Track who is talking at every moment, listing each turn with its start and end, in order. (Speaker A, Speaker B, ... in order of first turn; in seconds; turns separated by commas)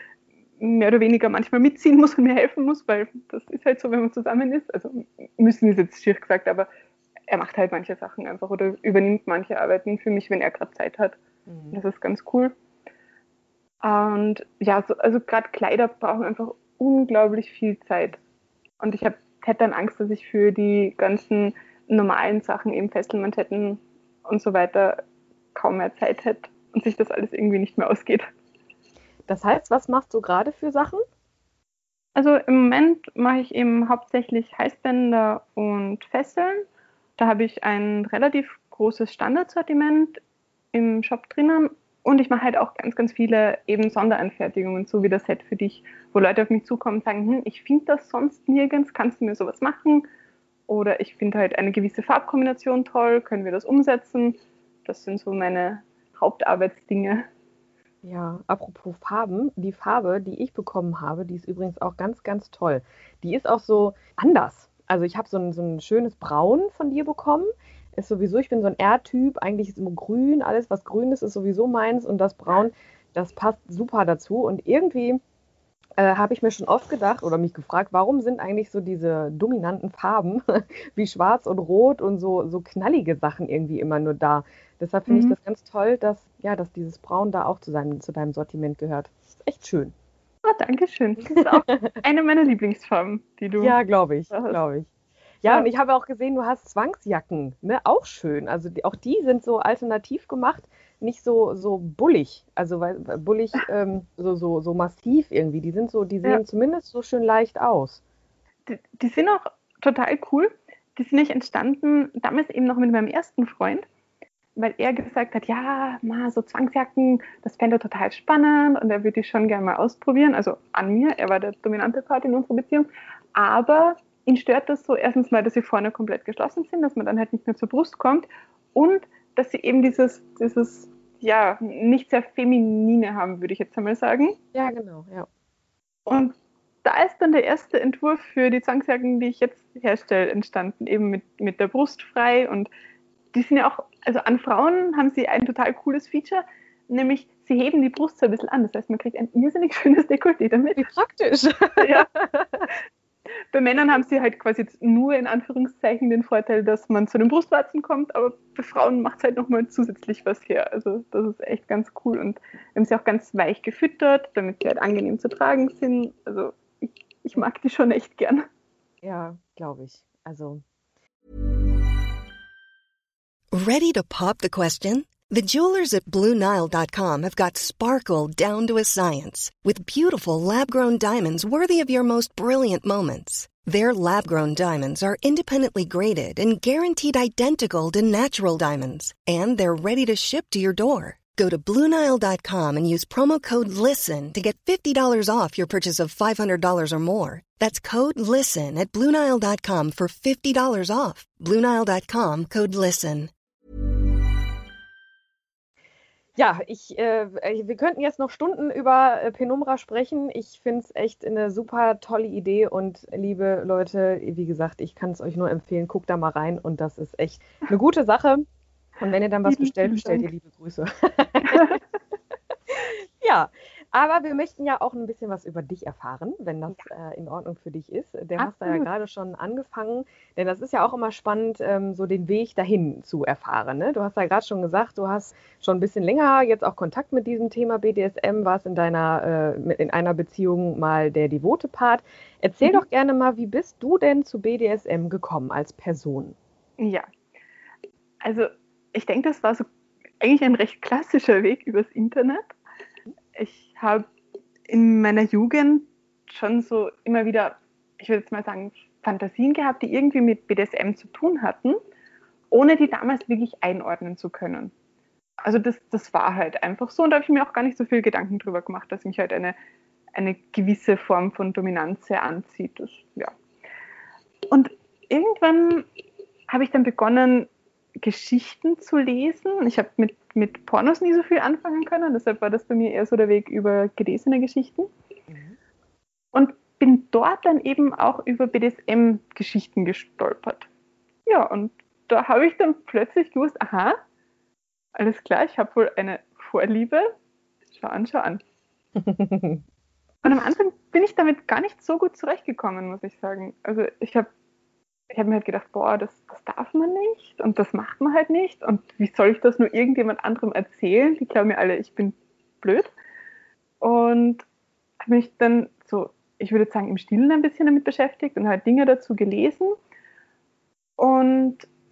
Speaker A: 0.6-6.7, Speaker A: 7.3-11.2, Speaker B: 11.5-11.8, Speaker A: 11.7-12.5, Speaker A: 13.8-18.2, Speaker A: 18.8-25.0, Speaker A: 25.5-28.3, Speaker B: 29.3-31.0, Speaker A: 32.1-36.6, Speaker A: 37.2-40.2, Speaker A: 40.7-50.0, Speaker A: 50.7-57.2, Speaker B: 58.0-75.2, Speaker B: 76.0-89.9, Speaker A: 85.1-85.4, Speaker A: 90.4-93.8, Speaker B: 91.3-91.9, Speaker B: 93.6-94.9, Speaker A: 94.3-94.6, Speaker B: 95.4-108.0, Speaker A: 108.7-113.8, Speaker A: 114.5-134.4, Speaker B: 134.5-135.3, Speaker A: 136.1-142.7, Speaker A: 143.3-150.9, Speaker B: 150.8-152.7, Speaker A: 151.8-152.1, Speaker A: 153.5-168.4, Speaker B: 169.0-170.6, Speaker C: 173.5-203.3, Speaker B: 206.4-218.4, Speaker B: 219.0-221.8, Speaker A: 219.4-220.3, Speaker A: 221.4-221.8, Speaker B: 222.7-246.4, Speaker A: 228.4-228.9, Speaker A: 246.8-247.1, Speaker A: 248.2-249.6, Speaker A: 250.2-252.5, Speaker A: 253.4-254.1, Speaker A: 254.7-261.8, Speaker A: 262.5-264.7, Speaker A: 265.4-269.6, Speaker A: 270.1-273.3, Speaker A: 274.5-275.9, Speaker A: 276.5-277.5, Speaker A: 278.0-284.9, Speaker B: 285.3-285.6, Speaker A: 286.3-290.7, Speaker A: 291.3-294.0, Speaker A: 294.9-297.1, Speaker A: 297.7-298.4, Speaker B: 299.0-299.6, Speaker A: 300.2-304.3, Speaker A: 305.1-312.9, Speaker A: 313.8-314.4, Speaker A: 315.0-319.7, Speaker A: 321.0-321.6